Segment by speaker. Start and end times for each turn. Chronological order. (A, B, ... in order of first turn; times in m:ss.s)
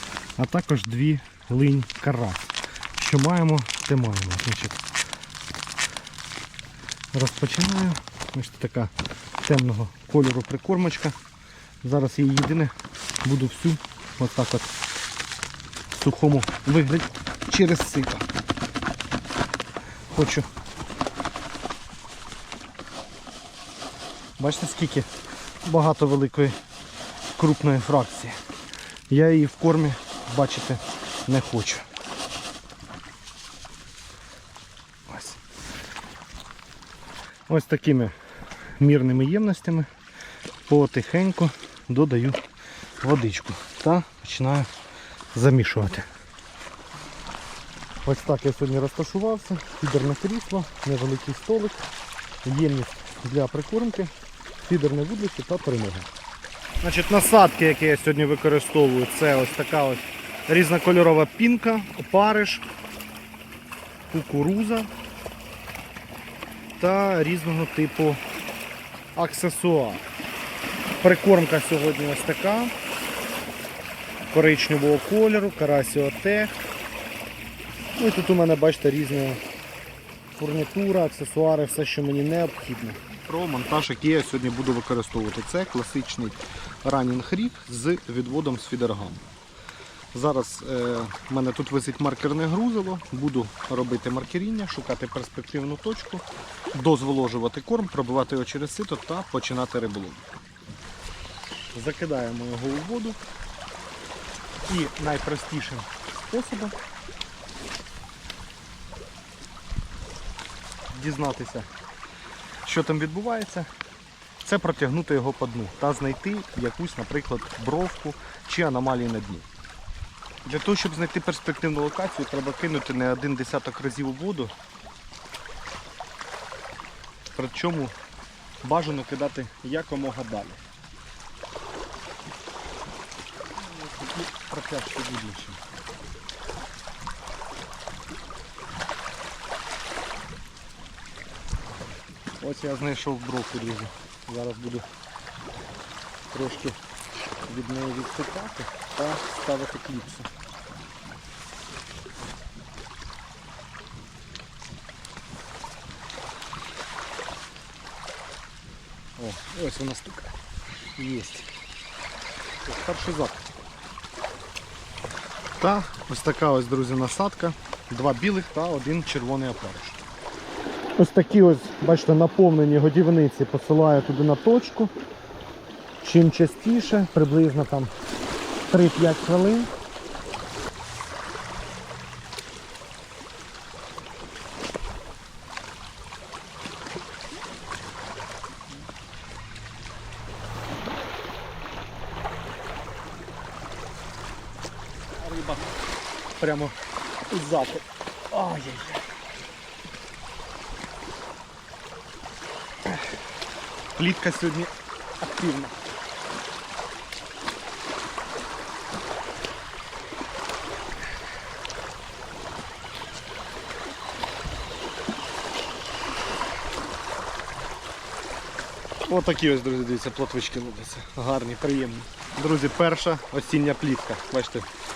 0:00.4-0:04.8 A
0:07.1-0:11.2 A
0:11.8-0:12.7 A
0:13.2-0:14.7 A
0:15.9-0:18.2 A
0:20.1-0:20.5 A
0:24.4-0:25.1 A
0:25.6-0:26.6 A
0:27.4-0:28.4 A
0:29.1-0:31.8 A
0:35.1-0:35.4 A
0:37.5-0:38.1 A
0:38.8-0:39.9 A
0:40.7-0:42.4 A
0:43.0-0:44.7 A
0:45.3-0:46.1 A
0:48.0-0:51.8 A
0:52.4-0:54.1 A
0:54.6-0:56.1 A
0:56.8-1:02.6 A
1:04.1-1:04.9 A
1:06.8-1:08.2 A
1:09.1-1:10.0 A
1:11.0-1:12.7 A
1:14.3-1:16.5 A
1:18.0-1:19.4 A
1:20.3-1:29.2 A
1:30.1-1:40.2 A
1:41.7-1:43.2 A
1:44.7-1:46.8 A
1:50.9-1:51.7 A
1:52.6-1:53.7 A
1:54.4-1:59.5 A
2:00.4-2:04.5 A
2:07.4-2:07.9 A
2:08.6-2:10.6 A
2:13.6-2:15.6 A
2:22.4-2:24.9 A
2:26.3-2:26.8 A
2:27.4-2:30.3 A
2:39.2-2:40.3 A
2:41.0-2:41.5 A
2:42.6-2:43.4 A
2:45.6-2:50.0 A
2:51.0-2:54.9 A
2:56.0-2:57.9 A
2:58.7-2:59.7 A
3:15.2-3:15.7 A
3:16.4-3:16.8 A
3:17.3-3:19.0 A
3:23.9-3:25.8 A
3:39.0-3:44.7 A